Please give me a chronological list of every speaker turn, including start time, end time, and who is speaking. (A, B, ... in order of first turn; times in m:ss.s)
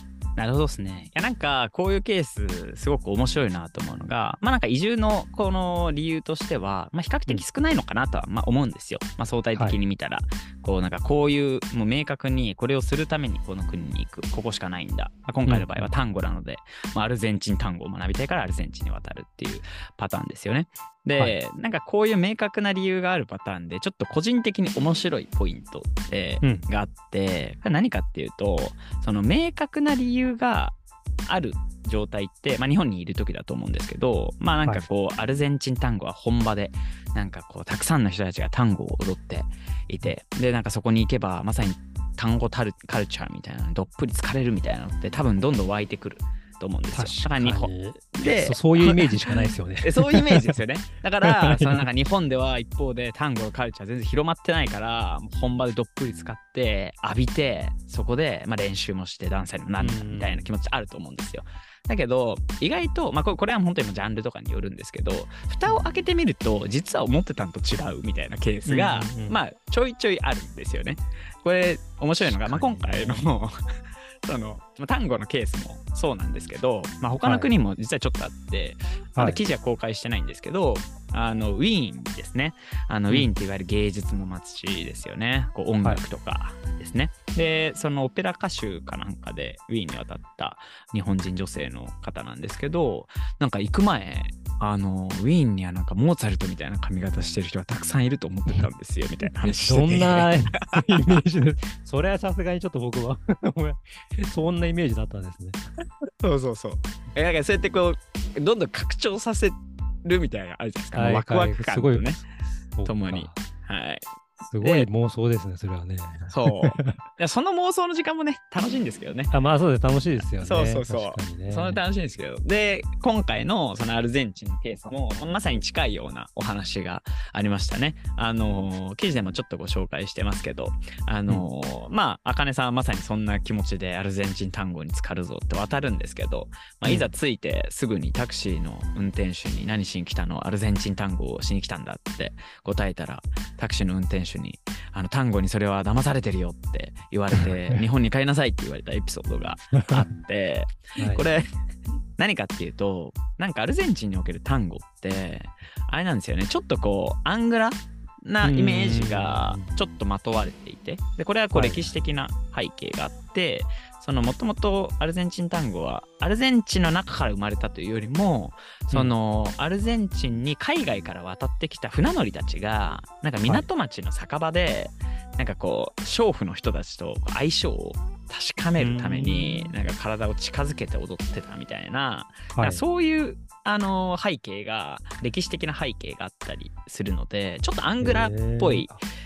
0:00.4-1:13.5 A
0:15.4-0:15.9 B
0:46.9-0:50.6 B
0:51.2-0:51.9 B
0:59.8-1:00.5 B
1:08.6-1:09.4 B
1:12.2-1:13.2 B
1:14.2-1:41.2 A
1:17.2-1:17.5 B
1:19.2-1:19.4 B
1:39.2-1:45.6 B
1:46.2-1:52.2 A
1:50.9-1:53.4 B
1:52.8-1:54.0 A
1:54.4-1:57.0 B
1:54.6-1:54.9 A
1:56.3-1:59.3 A
1:59.3-2:01.8 B
2:00.4-2:31.5 A
2:16.8-2:17.1 B
2:31.0-2:31.2 B
2:32.2-3:08.9 A
2:38.4-2:39.7 B
2:41.5-2:41.9 B
2:58.8-2:59.8 B
3:02.5-3:02.8 B
3:08.0-3:09.0 B